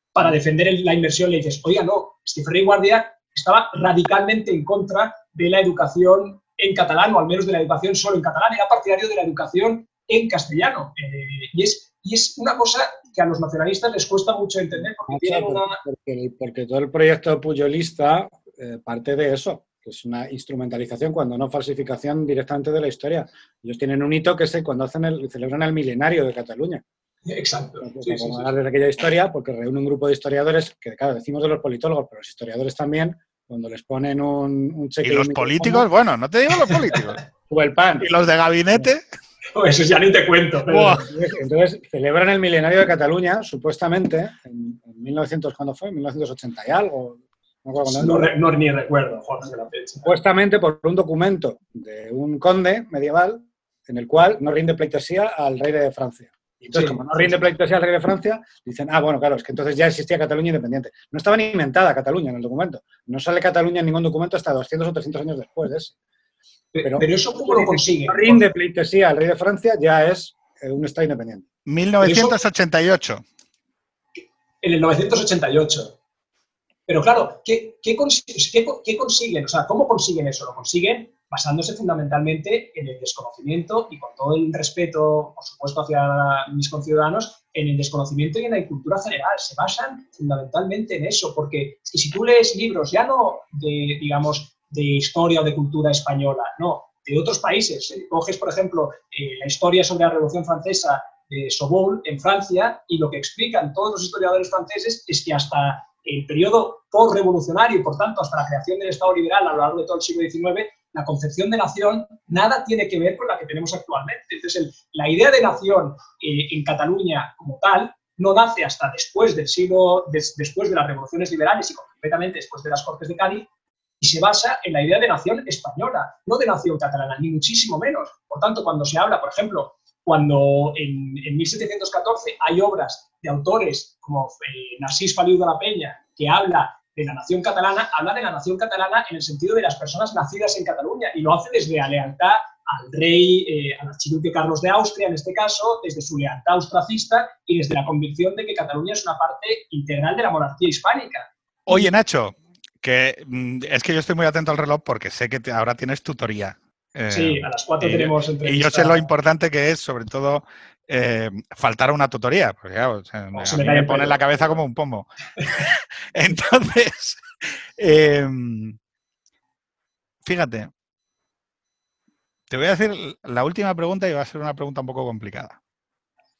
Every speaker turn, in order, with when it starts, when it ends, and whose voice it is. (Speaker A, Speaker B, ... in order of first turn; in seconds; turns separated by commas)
Speaker A: 0.1-15.8, Speaker B: 15.1-26.8, Speaker A: 27.3-28.5, Speaker B: 27.8-35.9, Speaker C: 35.0-37.2, Speaker B: 37.5-38.1, Speaker C: 38.0-39.0, Speaker A: 39.5-41.0, Speaker C: 40.7-41.0, Speaker B: 40.8-48.2, Speaker A: 47.8-50.1, Speaker B: 50.0-65.9, Speaker A: 56.7-57.4, Speaker A: 66.7-68.4, Speaker B: 66.8-71.5, Speaker C: 71.7-73.2, Speaker A: 72.0-72.4, Speaker A: 74.6-76.0, Speaker A: 76.9-123.5, Speaker A: 124.0-151.9, Speaker C: 151.7-167.2, Speaker A: 157.1-159.1, Speaker A: 163.3-164.5, Speaker C: 167.8-168.8, Speaker C: 170.2-170.7, Speaker C: 172.5-175.6